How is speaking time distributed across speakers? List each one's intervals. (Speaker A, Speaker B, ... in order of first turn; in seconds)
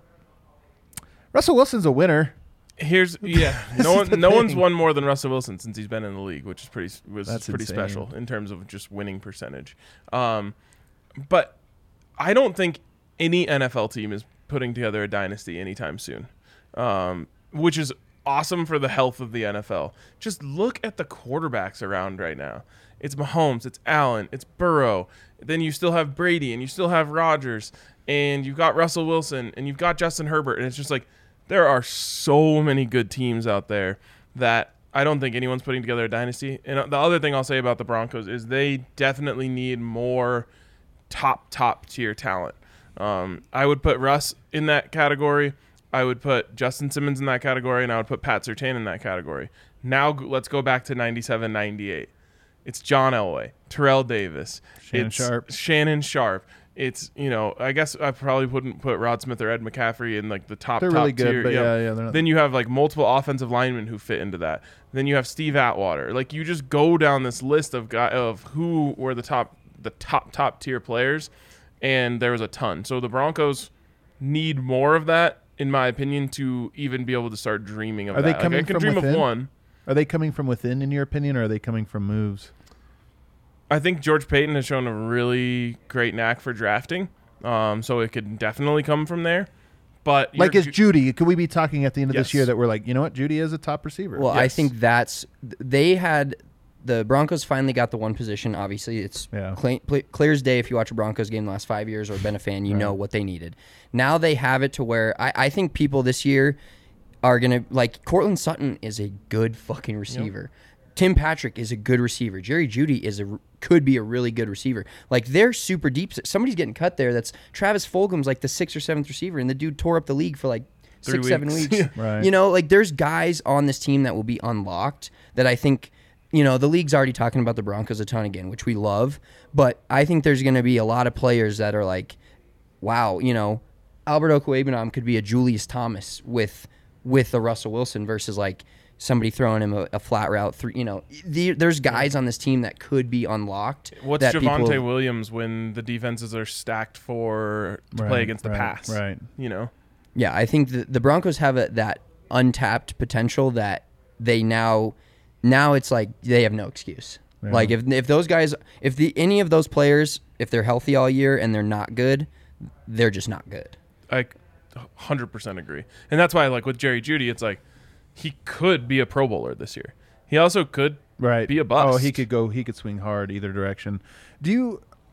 Speaker A: 1.3-2.3, 3.2-4.6, 7.2-8.1, 54.8-55.4, 60.8-62.2, 78.1-79.3, 79.8-82.5, 90.3-94.3, 99.3-99.6, 122.0-122.3, 147.9-149.2, 157.4-157.7, 171.2-174.8
Speaker B: 2.8-10.5, 11.2-11.6, 12.2-40.5, 41.1-52.1, 52.6-71.3, 71.8-79.5, 83.7-89.5, 90.0-90.7, 92.1-92.5, 94.3-94.7, 121.0-121.9, 144.0-149.7, 164.1-167.6, 168.2-172.2
Speaker C: 94.1-106.6, 107.2-132.2, 132.8-144.8, 150.1-162.3, 162.8-163.8